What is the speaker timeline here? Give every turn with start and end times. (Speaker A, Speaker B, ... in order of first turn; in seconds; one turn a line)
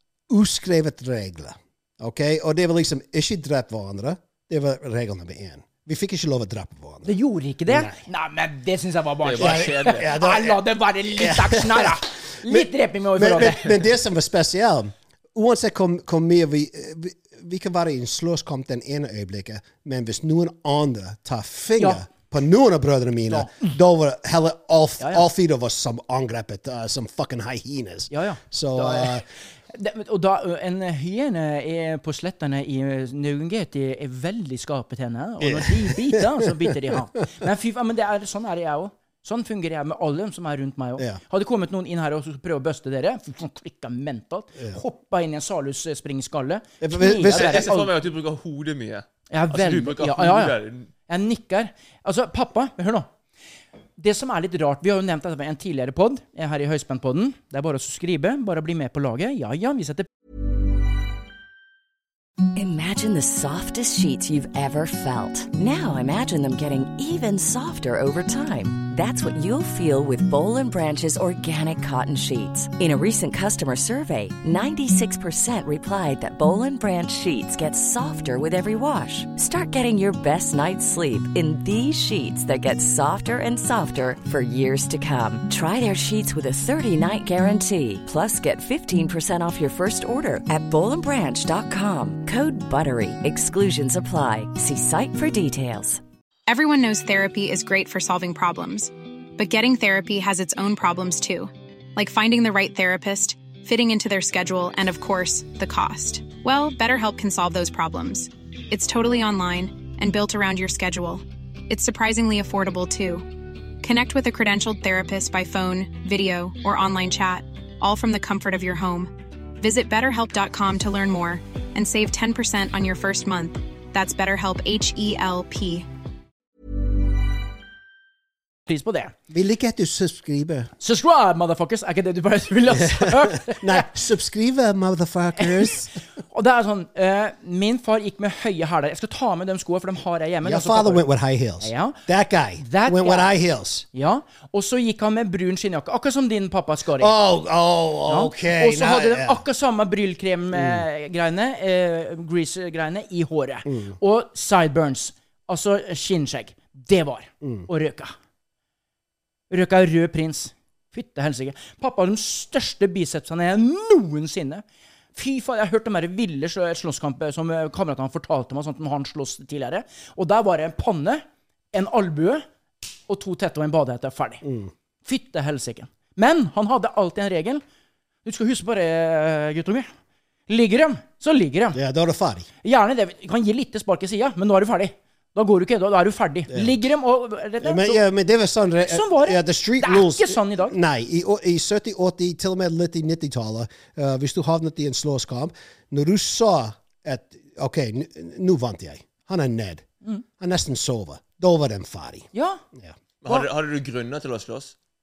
Speaker A: 0.3-7.1
Speaker B: 7.0-13.8
Speaker A: 7.7-8.0
Speaker C: 9.2-10.1
Speaker A: 9.4-29.2
Speaker B: 21.8-22.0
Speaker B: 23.3-23.6
Speaker B: 25.0-25.2
Speaker B: 28.1-47.9
Speaker A: 35.4-37.0
Speaker A: 46.8-47.7
Speaker C: 47.3-50.9
Speaker B: 49.3-53.1
Speaker B: 54.0-60.1
Speaker D: 62.5-96.0
Speaker E: 96.5-113.3
Speaker E: 113.8-125.8
Speaker B: 128.7-129.1
Speaker A: 129.3-130.7
Speaker B: 130.8-133.9
Speaker A: 132.7-135.9
Speaker B: 135.4-141.0
Speaker A: 140.4-143.8
Speaker B: 141.6-142.0
Speaker B: 142.6-143.3
Speaker B: 143.9-147.1
Speaker A: 146.9-149.4
Speaker B: 148.1-158.1
Speaker A: 150.5-150.8
Speaker A: 153.7-153.9
Speaker A: 157.4-157.7
Speaker B: 159.5-164.6
Speaker B: 165.1-172.4
Speaker B: 173.1-174.4
Speaker A: 174.4-174.7
Speaker B: 175.0-177.6
Speaker B: 178.2-179.9
Speaker B: 180.5-181.8
Speaker A: 181.7-182.5
Speaker B: 182.6-188.0
Speaker A: 186.5-186.8
Speaker A: 187.6-199.8
Speaker B: 188.9-190.7
Speaker A: 200.4-202.9
Speaker B: 202.3-202.6
Speaker C: 203.2-204.7